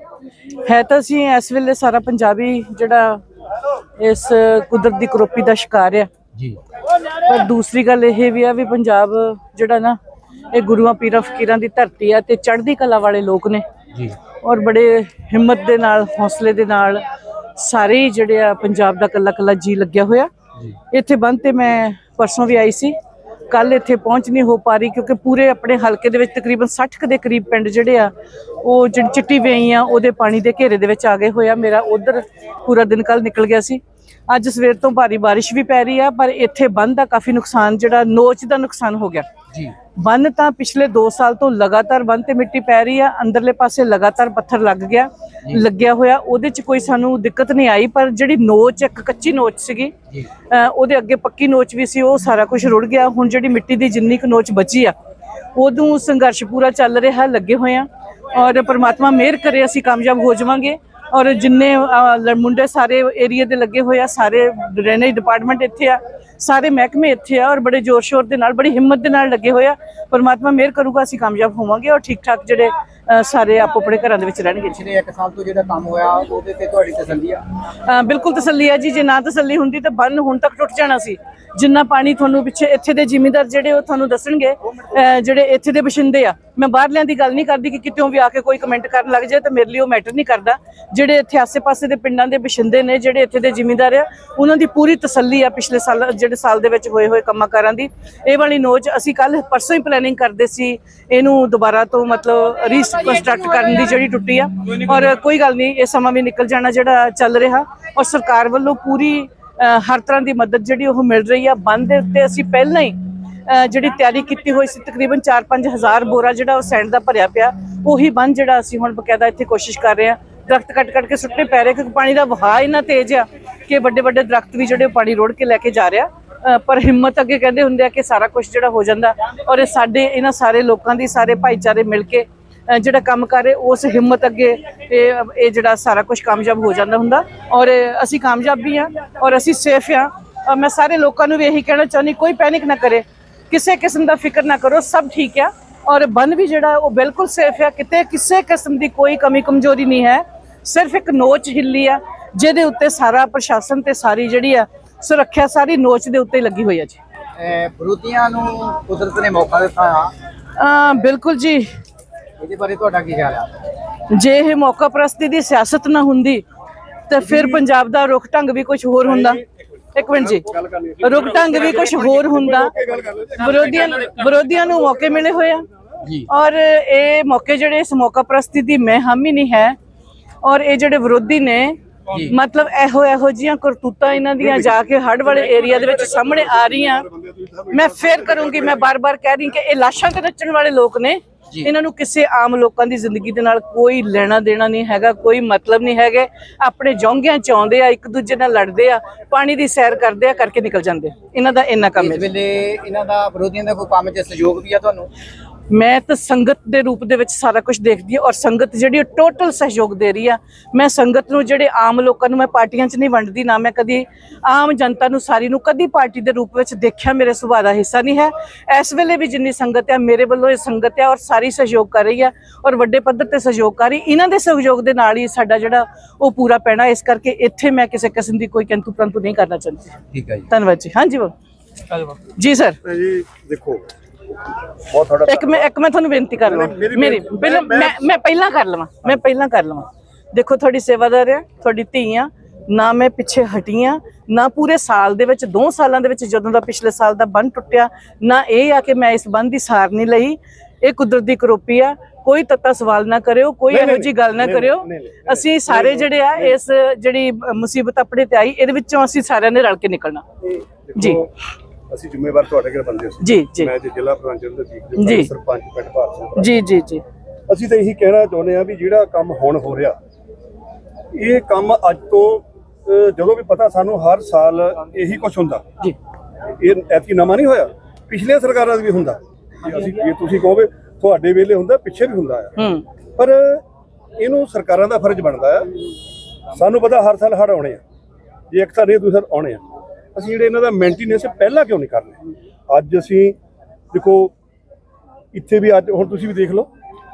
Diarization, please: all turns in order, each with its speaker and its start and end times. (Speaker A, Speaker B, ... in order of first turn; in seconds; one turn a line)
Speaker A: 0.6-3.2
Speaker A: 4.0-6.1
Speaker A: 7.2-10.0
Speaker A: 10.5-13.7
Speaker A: 14.4-17.0
Speaker A: 17.6-20.3
Speaker A: 20.9-22.9
Speaker A: 23.5-39.3
Speaker A: 40.0-50.0
Speaker A: 50.5-55.0
Speaker A: 55.5-74.8
Speaker B: 74.7-77.4
Speaker A: 77.8-157.0
Speaker B: 157.4-160.1
Speaker A: 160.5-161.7
Speaker B: 162.4-163.5
Speaker A: 164.1-166.4
Speaker A: 167.1-169.4
Speaker C: 167.2-167.7
Speaker C: 169.0-169.4
Speaker A: 169.9-170.5
Speaker C: 170.1-174.0
Speaker A: 171.0-172.7
Speaker A: 173.4-175.7
Speaker B: 176.0-176.3
Speaker A: 176.2-179.8
Speaker A: 180.4-187.1
Speaker C: 184.4-188.9
Speaker A: 187.7-202.3
Speaker B: 202.0-205.1
Speaker A: 205.7-231.3
Speaker B: 230.1-230.5
Speaker A: 232.0-232.8
Speaker C: 232.8-233.8
Speaker C: 234.9-235.7
Speaker A: 235.3-260.2
Speaker C: 236.4-238.0
Speaker C: 253.7-256.6
Speaker C: 260.4-261.3
Speaker A: 261.0-261.2
Speaker C: 261.9-266.5
Speaker A: 263.2-263.7
Speaker A: 265.0-265.3
Speaker A: 266.4-267.0
Speaker C: 267.5-270.0
Speaker C: 271.1-275.6
Speaker C: 276.6-282.6
Speaker A: 282.6-282.9
Speaker C: 283.2-283.6
Speaker C: 284.2-285.7
Speaker C: 286.5-287.8
Speaker C: 288.5-289.6
Speaker C: 290.1-293.4
Speaker C: 293.9-294.3
Speaker C: 295.3-296.7